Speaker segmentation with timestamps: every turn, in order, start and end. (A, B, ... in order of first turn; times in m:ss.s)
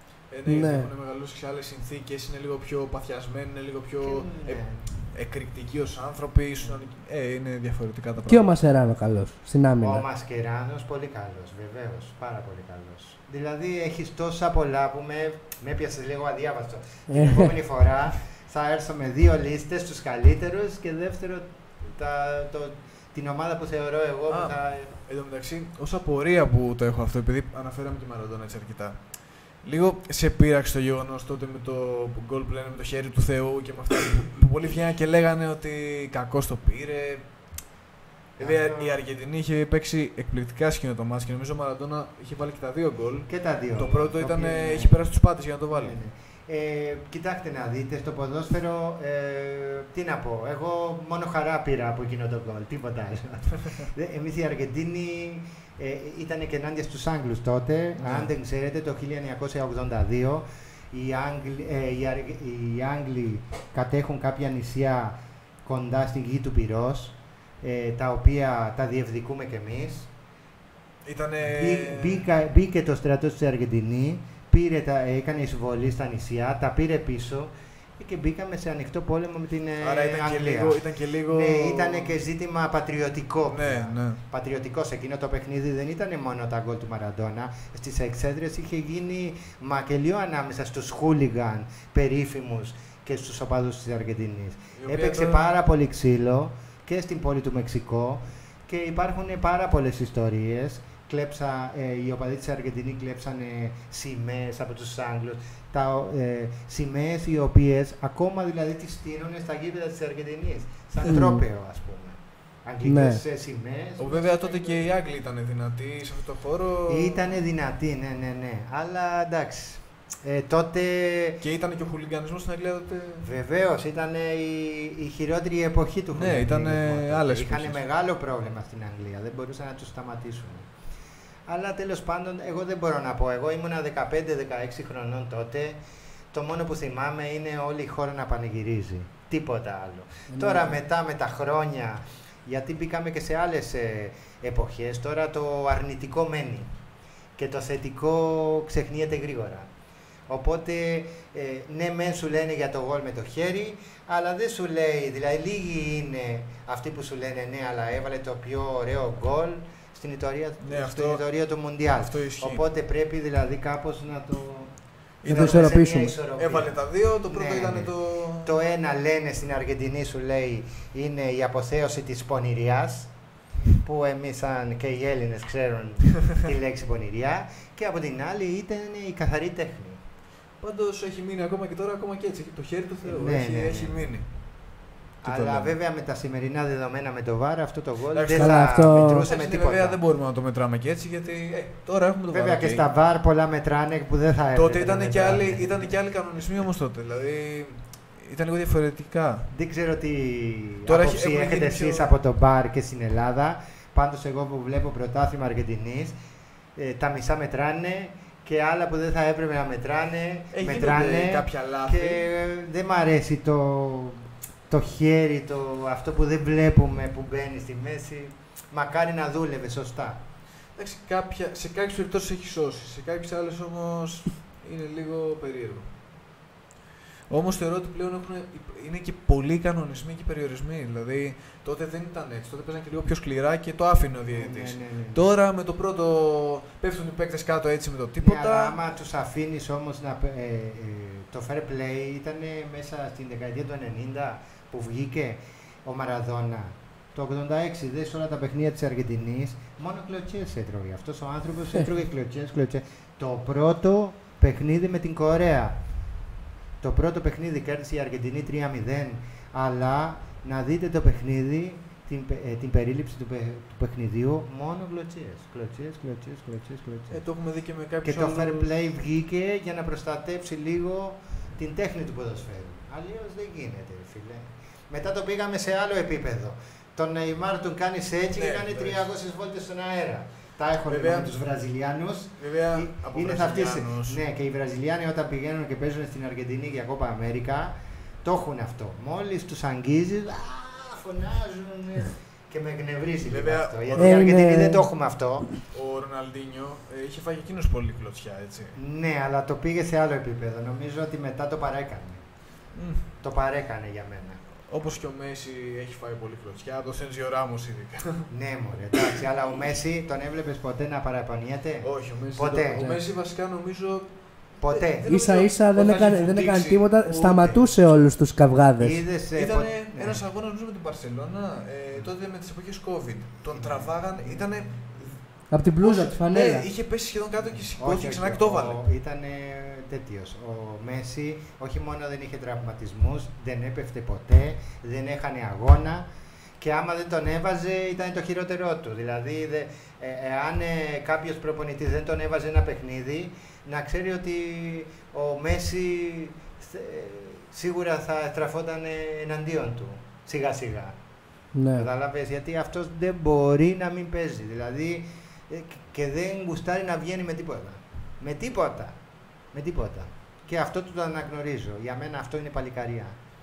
0:00.3-0:08.5 A
0:00.5-0:00.9 B
0:04.0-0:04.9 C
0:08.3-0:10.0 B
0:09.8-0:24.9 C
0:17.1-0:17.5 B
0:24.3-0:37.2 A
0:38.4-0:39.0 C
0:38.4-0:46.0 A
0:43.3-0:45.0 C
0:45.7-1:10.1 C
0:58.0-0:58.3 A
1:11.0-1:12.2 A
1:11.4-1:54.9 C
1:19.8-1:22.2 A
1:23.5-1:24.2 A
1:34.8-1:35.4 A
1:51.0-1:51.4 B
1:52.8-1:53.2 B
1:54.0-1:57.4 A
1:56.9-2:01.4 C
2:01.4-2:03.3 A
2:03.2-2:10.7 C
2:06.1-2:07.8 A
2:11.5-2:15.8 C
2:16.3-2:26.7 C
2:20.3-2:20.7 B
2:27.4-2:29.7 C
2:30.3-2:44.7 C
2:40.6-2:41.2 A
2:42.0-2:42.6 A
2:45.2-2:45.8 A
2:45.2-2:46.2 B
2:45.2-2:53.1 C
2:46.4-2:48.6 A
2:53.8-3:00.0 C
3:00.6-3:04.3 A
3:03.0-3:04.1 C
3:05.2-3:10.0 C
3:05.2-3:05.7 A
3:08.1-3:12.8 A
3:08.4-3:09.3 B
3:12.3-3:15.9 C
3:14.5-3:19.5 A
3:19.5-3:26.2 C
3:20.9-3:22.1 A
3:26.8-3:40.2 C
3:30.5-3:32.2 A
3:40.8-3:45.9 A
3:47.3-3:58.8 A
3:54.3-3:55.3 C
3:58.2-4:15.8 C
4:16.8-4:27.2 C
4:27.1-4:28.7 A
4:28.0-4:55.5 C
4:38.4-4:39.1 A
4:40.9-4:41.4 A
4:42.4-4:44.2 A
4:53.3-4:54.3 A
4:54.0-4:54.9 B
4:55.6-4:58.8 A
4:58.8-5:02.2 C
5:02.7-5:03.1 A
5:03.2-5:04.4 C
5:04.7-5:08.3 A
5:08.3-5:13.0 C
5:11.8-5:14.1 A
5:14.6-5:15.1 C
5:14.6-5:16.9 A
5:15.1-5:19.0 B
5:17.1-5:17.7 C
5:18.8-5:20.2 C
5:19.4-5:25.2 A
5:23.5-5:24.4 C
5:25.5-5:26.7 B
5:25.8-5:28.8 A
5:27.8-5:36.1 C
5:36.6-5:51.0 C
5:51.5-5:51.9 B
5:51.8-5:59.0 C
5:59.5-6:03.2 C